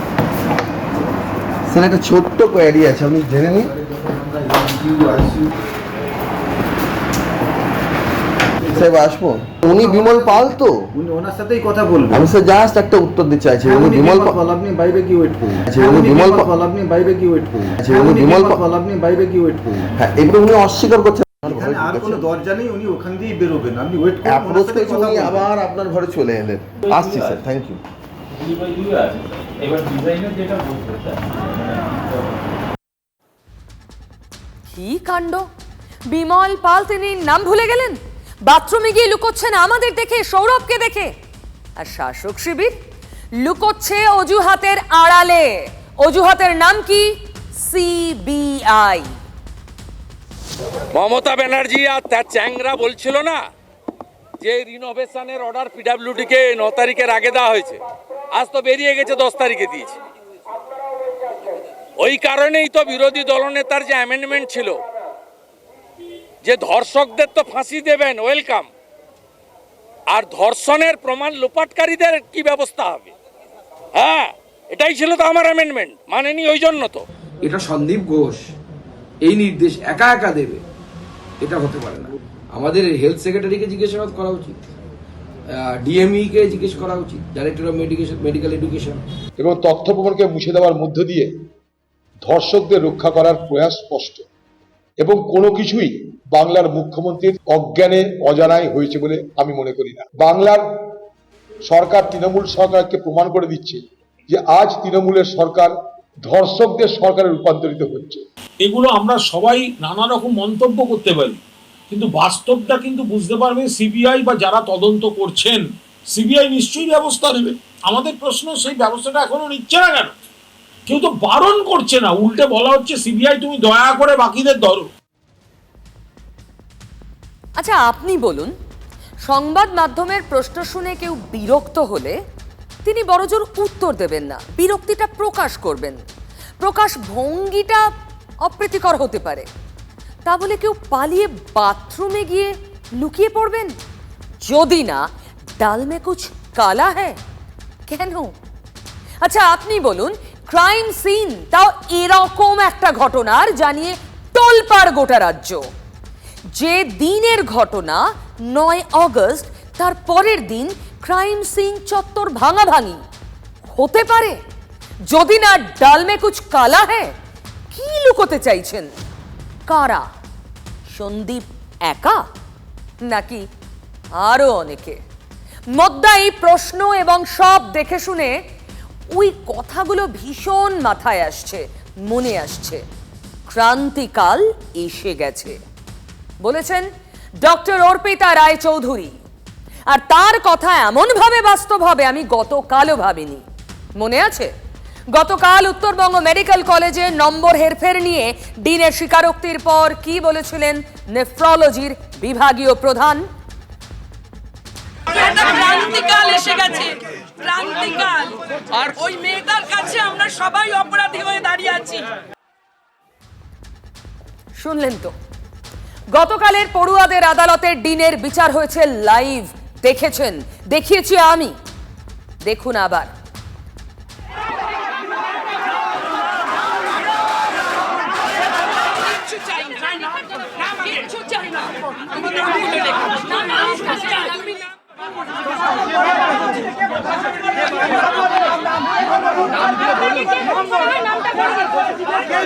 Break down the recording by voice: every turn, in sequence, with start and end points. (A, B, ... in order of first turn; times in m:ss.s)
0:01.7-0:03.7 A
0:03.8-0:05.5 B
0:08.7-0:10.8 A
0:09.7-0:12.3 B
0:12.1-0:14.4 A
0:13.6-0:19.9 B
0:15.7-0:16.5 A
0:17.8-0:18.6 A
0:20.0-0:22.2 A
0:21.4-0:25.5 B
0:24.2-0:27.8 A
0:26.8-0:27.4 C
0:28.3-0:32.4 C
0:34.7-0:35.5 D
0:36.1-0:41.1 D
0:41.8-0:42.7 D
0:43.4-0:49.1 D
0:50.9-0:53.4 E
0:54.4-0:57.8 E
0:58.3-1:00.0 E
1:02.0-1:04.8 E
1:06.4-1:08.7 E
1:10.1-1:13.1 E
1:13.9-1:17.0 E
1:17.4-1:18.4 F
1:19.2-1:20.6 F
1:21.4-1:24.7 F
1:25.8-1:29.0 F
1:29.4-1:31.3 G
1:32.2-1:34.3 G
1:35.0-1:40.7 G
1:41.7-1:45.7 G
1:46.2-1:48.2 G
1:48.6-1:51.4 H
1:51.9-2:00.1 H
2:00.9-2:04.9 H
2:07.6-2:08.5 D
2:09.2-2:12.2 D
2:12.8-2:16.0 D
2:16.6-2:17.9 D
2:18.4-2:19.5 D
2:20.2-2:23.7 D
2:24.4-2:25.0 D
2:25.6-2:27.2 D
2:27.9-2:28.3 D
2:29.2-2:35.7 D
2:36.6-2:43.0 D
2:43.7-2:44.4 D
2:45.1-2:47.1 D
2:47.7-2:48.9 D
2:49.7-2:50.1 D
2:50.9-2:52.2 D
2:53.1-2:53.4 D
2:54.2-2:55.0 D
2:55.7-2:58.3 D
2:59.1-3:02.8 D
3:03.5-3:05.6 D
3:06.4-3:06.9 D
3:07.4-3:09.1 D
3:09.9-3:13.4 D
3:14.0-3:14.5 D
3:15.1-3:23.3 D
3:25.1-3:32.0 I
3:34.6-3:35.1 D
3:36.1-3:41.6 D
3:42.4-3:43.1 D